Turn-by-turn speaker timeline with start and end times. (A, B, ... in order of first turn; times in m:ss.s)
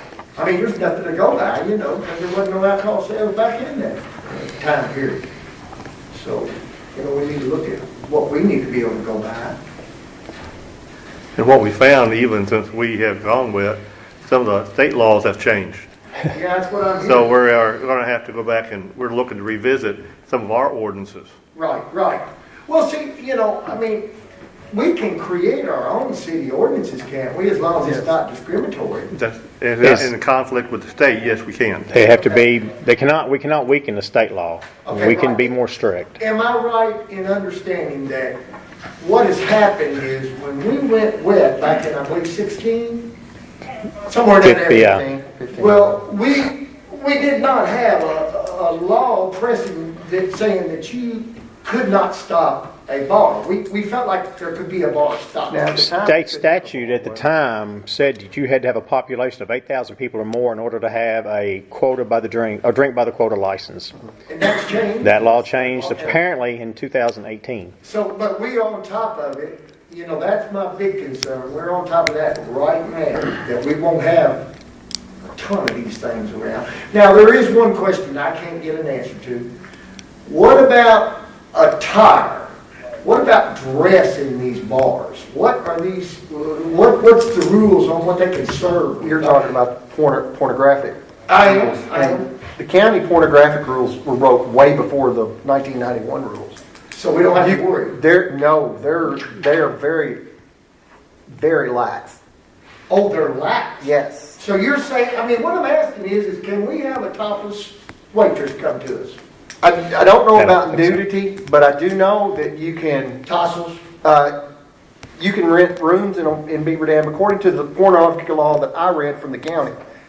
0:00.4-0:05.2 A
0:06.1-0:09.6 A
0:11.4-0:15.9 B
0:16.3-0:17.3 A
0:17.0-0:21.3 B
0:21.5-0:24.1 A
0:24.7-0:29.1 A
0:27.8-0:28.1 C
0:29.1-0:32.0 B
0:29.8-0:30.1 D
0:31.9-0:36.2 D
0:34.8-0:35.5 A
0:36.2-0:38.4 A
0:39.0-0:43.1 A
0:44.0-0:45.0 A
0:44.4-0:45.0 D
0:44.8-0:46.0 C
0:45.5-0:55.9 A
0:55.5-0:57.2 C
0:55.8-1:03.9 D
1:04.3-1:06.2 A
1:05.0-1:07.7 D
1:07.8-1:14.5 A
1:15.4-1:19.5 A
1:20.2-1:29.4 A
1:29.0-1:36.6 C
1:31.3-1:32.3 A
1:36.9-1:37.9 A
1:37.4-1:40.2 C
1:41.3-1:42.2 C
1:42.9-1:49.2 A
1:43.8-1:44.4 C
1:49.6-1:53.2 C
1:50.3-1:51.0 D
1:53.2-1:53.8 A
1:54.0-1:54.4 C
1:55.2-1:59.8 C